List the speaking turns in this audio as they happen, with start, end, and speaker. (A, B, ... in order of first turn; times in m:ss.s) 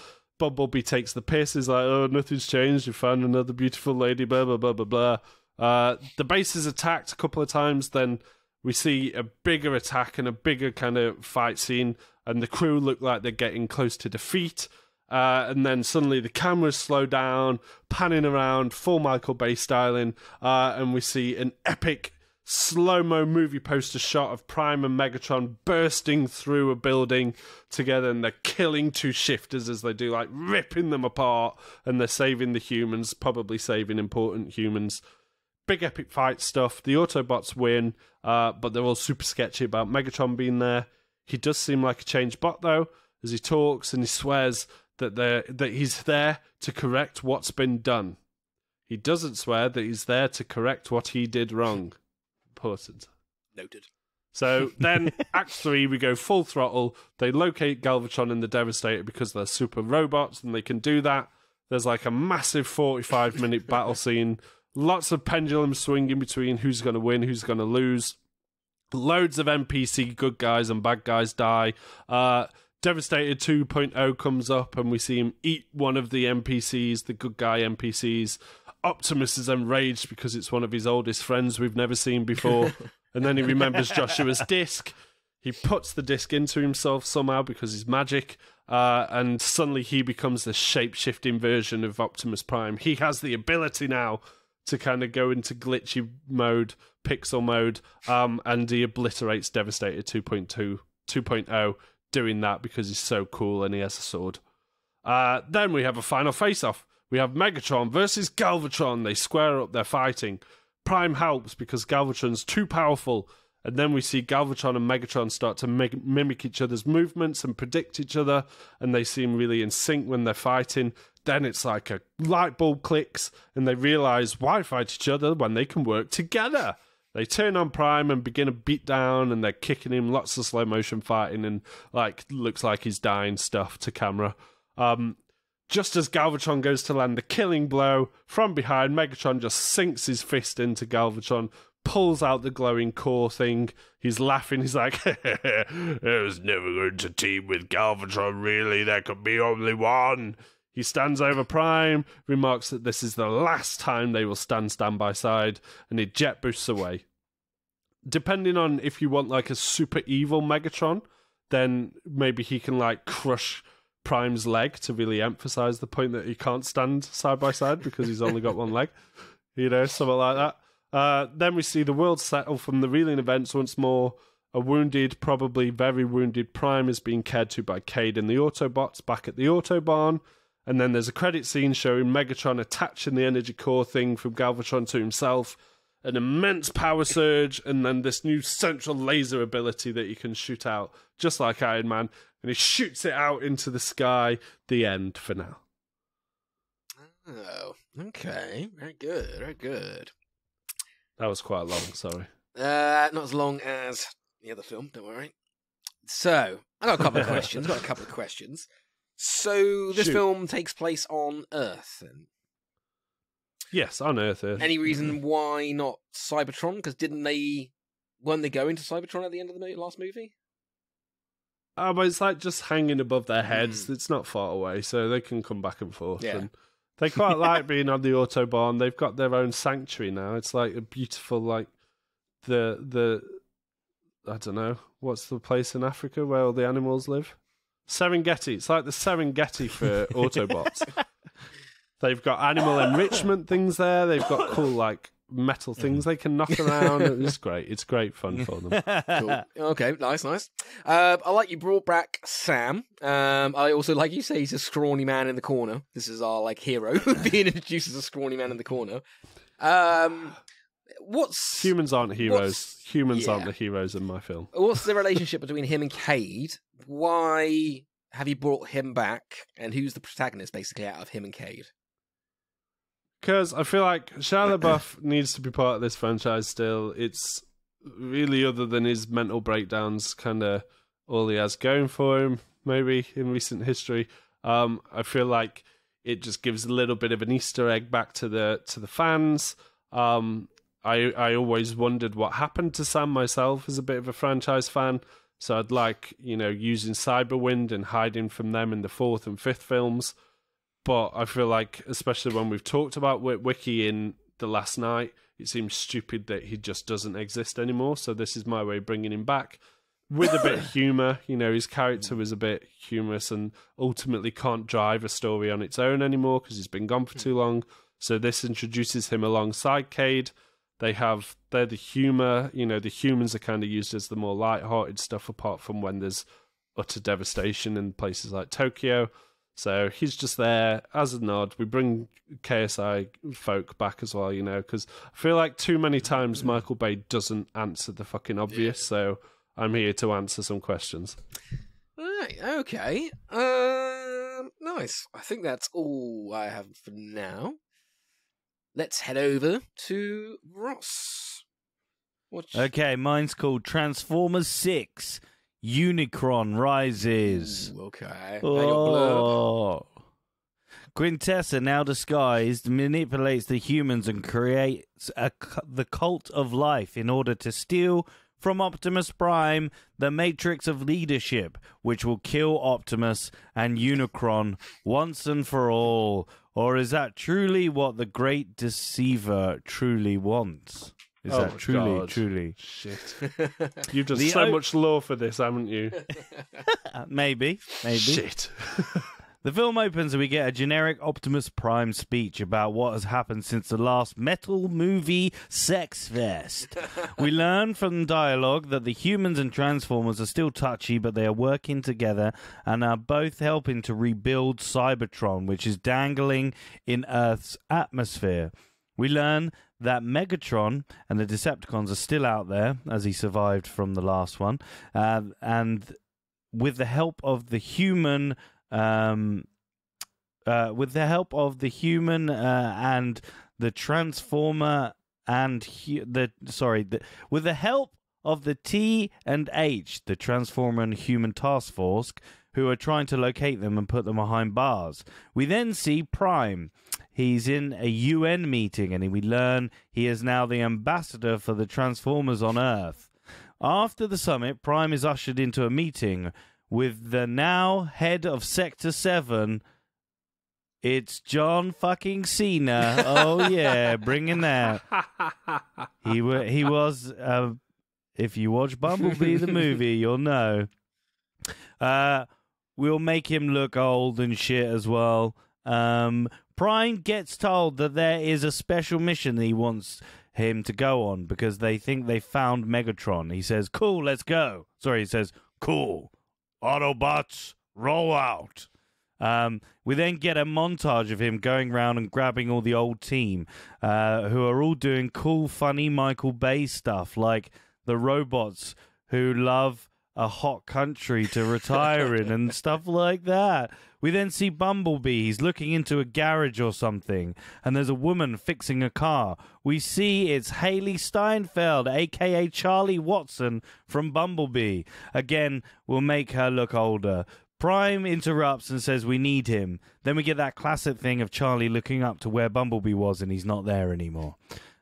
0:00.4-0:35.0 A
0:35.7-0:48.2 A
0:48.9-0:52.0 A
0:52.5-0:53.1 A
0:53.6-0:53.9 B
0:54.3-1:08.2 A
1:08.9-1:44.4 A
1:45.0-2:15.2 A
2:15.7-2:37.0 A
2:38.0-2:49.0 A
2:49.5-3:15.6 A
3:17.2-3:20.1 B
3:21.2-3:22.3 A
3:22.5-3:25.3 B
3:26.0-3:28.6 B
3:29.2-3:32.3 B
3:30.0-3:30.2 A
3:33.7-3:34.7 A
3:34.6-3:40.3 B
3:41.8-3:51.7 A
3:43.5-3:43.8 B
3:46.2-3:46.5 B
3:52.4-3:53.4 A
3:54.2-4:00.9 A
4:02.0-4:08.8 A
4:08.7-4:09.3 C
4:09.1-4:19.0 B
4:19.6-4:20.4 B
4:21.0-4:21.7 B
4:21.6-4:24.5 A
4:22.2-4:22.5 B
4:23.1-4:23.5 B
4:24.5-4:31.7 B
4:33.2-5:00.1 A
5:00.8-5:26.2 A
5:26.8-5:41.2 A
5:42.0-5:47.6 B
5:48.7-5:51.4 B
5:52.3-5:52.7 B
5:52.5-5:57.7 C
5:57.2-5:59.3 B
5:58.4-5:59.9 C
6:00.9-6:22.5 C
6:21.3-6:26.1 A
6:24.1-6:24.6 C
6:26.6-6:28.2 C
6:27.8-6:29.1 A
6:29.4-6:56.0 C
6:56.5-6:59.5 C
7:00.4-7:23.1 C
7:23.6-7:29.6 C
7:30.8-7:34.8 C
7:36.0-7:37.6 C
7:38.2-7:40.7 C
7:41.8-7:56.1 C
7:56.6-7:58.7 C
7:59.2-8:34.4 C